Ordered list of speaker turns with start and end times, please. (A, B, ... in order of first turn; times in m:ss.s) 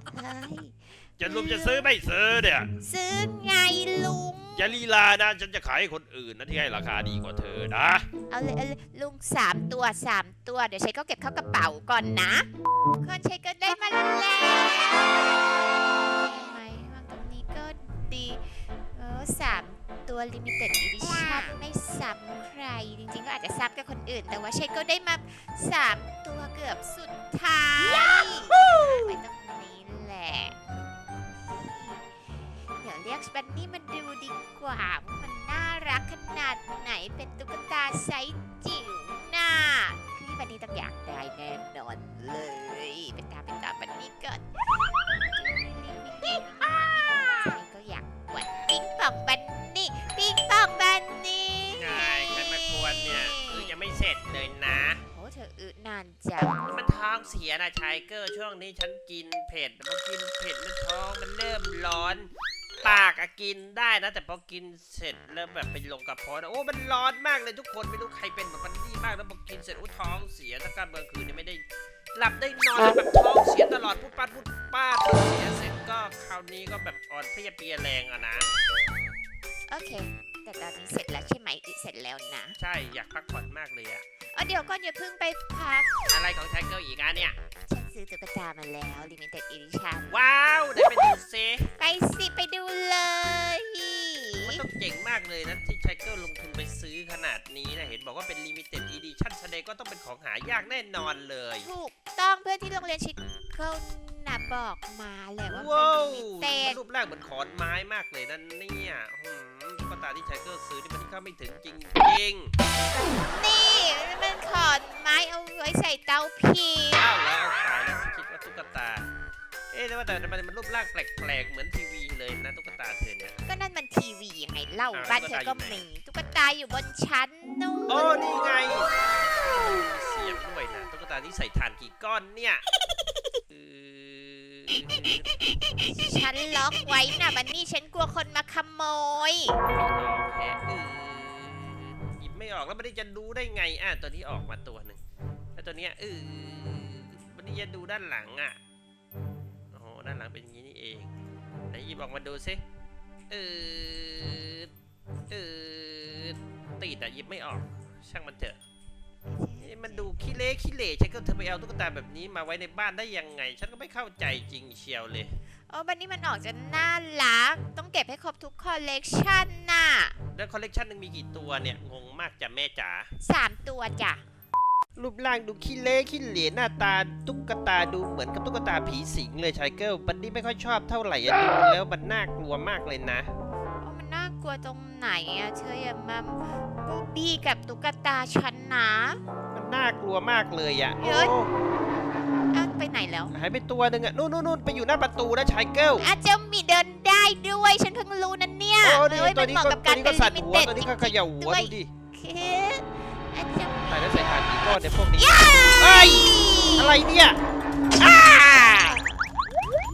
0:00.1-0:01.9 A
0:01.2-0:02.7 B
0:02.8-0:04.7 A
0:04.6-0:08.0 B
0:08.3-0:12.5 A
0:13.0-0:30.8 A
0:28.5-0:28.9 C
0:31.4-0:32.1 A
0:32.7-0:44.5 A
0:45.2-0:52.0 A
0:51.7-0:55.0 C
0:53.1-0:53.8 A
0:55.1-0:56.6 A
0:56.6-1:02.3 C
1:02.8-1:11.6 C
1:12.1-1:18.5 C
1:19.7-1:22.6 A
1:22.6-1:24.0 C
1:24.3-1:25.9 A
1:26.1-1:27.4 C
1:27.6-1:30.2 A
1:30.1-1:31.7 C
1:31.7-1:34.6 A
1:34.4-1:41.7 C
1:41.6-1:46.8 A
1:45.5-1:52.5 C
1:52.9-1:57.1 A
1:57.0-1:59.1 C
1:59.7-2:03.4 C
2:03.4-2:08.2 A
2:04.9-2:05.8 C
2:07.9-2:12.6 C
2:13.5-2:15.3 C
2:15.8-2:19.6 A
2:19.6-2:25.0 C
2:25.6-2:28.6 C
2:29.7-2:31.1 C
2:31.7-2:32.6 C
2:33.3-2:34.7 C
2:35.3-2:38.6 C
2:39.3-2:40.1 A
2:39.6-2:45.3 C
2:45.7-2:50.2 A
2:50.3-2:53.1 C
2:53.2-2:54.2 A
2:55.0-3:03.3 C
3:03.8-3:09.2 A
3:09.5-3:11.5 C
3:11.0-3:11.3 A
3:12.5-3:13.3 A
3:13.3-3:16.0 C
3:16.0-3:24.3 A
3:18.8-3:21.9 C
3:23.9-3:27.4 C
3:25.1-3:26.9 A
3:28.0-3:29.0 C